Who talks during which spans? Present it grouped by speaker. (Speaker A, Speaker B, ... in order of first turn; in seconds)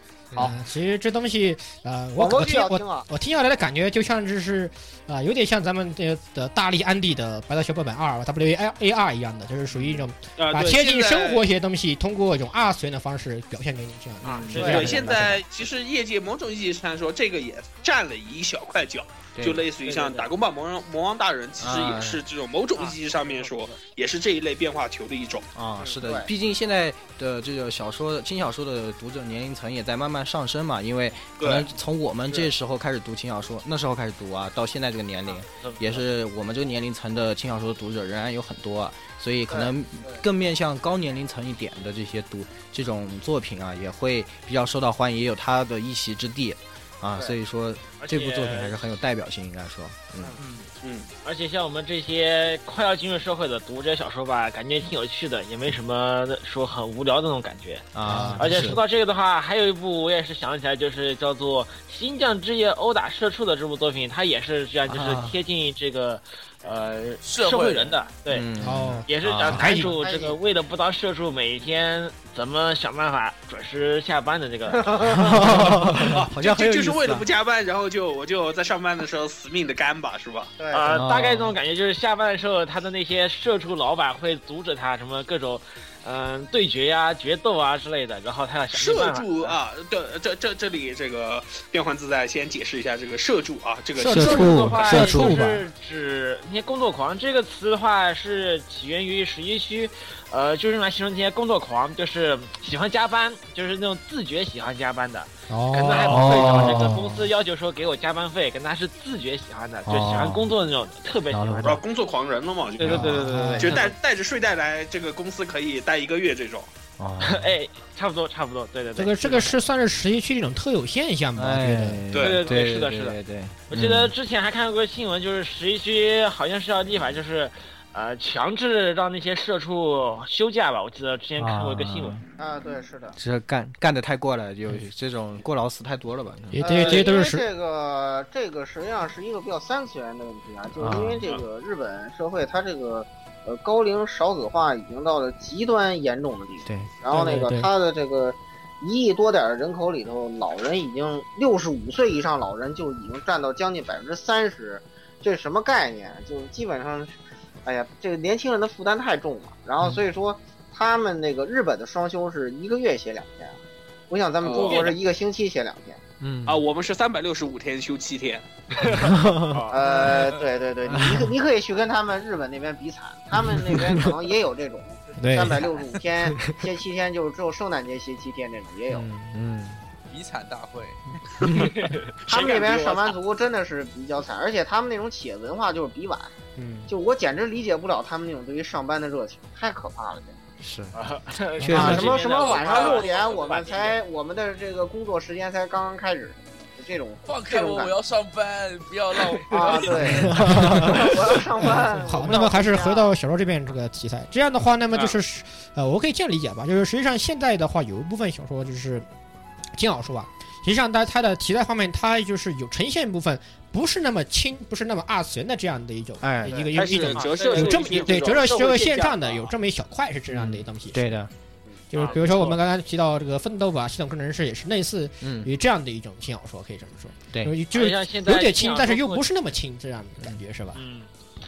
Speaker A: 0.4-15.4, 58.0-58.8, 68.6-70.0, 94.8-95.6, 105.5-106.9, 112.9-113.8, 119.0-122.0, 136.5-137.4, 147.1-147.7, 175.2-175.5, 186.6-186.9, 191.7-192.1, 200.1-201.0, 201.8-209.1, 209.8-221.1, 221.9-230.8
Speaker B: 2.2-3.1, 14.6-14.9, 25.8-26.3, 69.7-70.4, 74.7-75.4, 80.6-80.9, 132.4-133.2, 136.6-157.1, 157.7-163.6, 164.1-166.0, 169.7-179.1, 182.3-186.3, 186.9-190.4, 191.7-197.9, 199.5-203.2
Speaker C: 9.7-10.1, 14.2-14.9, 19.4-19.6, 21.6-22.2, 25.6-50.4, 57.9-58.8, 64.9-65.4, 68.3-69.9, 75.1-77.3, 80.9-81.6, 94.0-95.4, 106.1-107.3, 109.9-110.5, 111.3-111.8, 112.8-113.7, 117.0-117.6, 121.3-124.1, 131.4-132.2, 133.2-136.6, 140.8-141.2, 146.7-146.9, 166.2-166.6, 168.9-169.7, 170.9-171.3, 173.3-174.1, 175.2-175.7, 178.9-179.8, 181.4-181.7, 190.6-190.9, 191.6-192.2, 200.3-201.1, 216.2-216.6, 220.3-221.3, 225.2-225.5
Speaker D: 10.4-11.4, 14.6-25.5, 31.4-31.7, 50.8-51.1, 76.0-80.5, 88.7-94.7, 111.6-116.7, 122.1-122.6, 164.4-164.9, 166.5-168.5, 216.7-219.5
Speaker E: 14.2-15.1, 19.8-20.3, 22.8-23.7, 35.3-36.0, 48.0-48.8, 50.4-50.7, 51.2-68.5, 69.1-75.5, 80.7-89.6, 94.0-111.8, 112.8-113.9, 117.2-119.6, 122.2-132.2, 136.7-137.1, 164.5-165.0, 168.8-170.1, 181.5-183.1, 190.9-194.0, 217.1-218.2, 221.9-222.6, 227.7-229.3, 230.8-231.1
Speaker F: 67.2-68.0, 170.1-170.4, 180.1-181.5, 182.4-182.7, 192.1-193.5, 197.3-201.5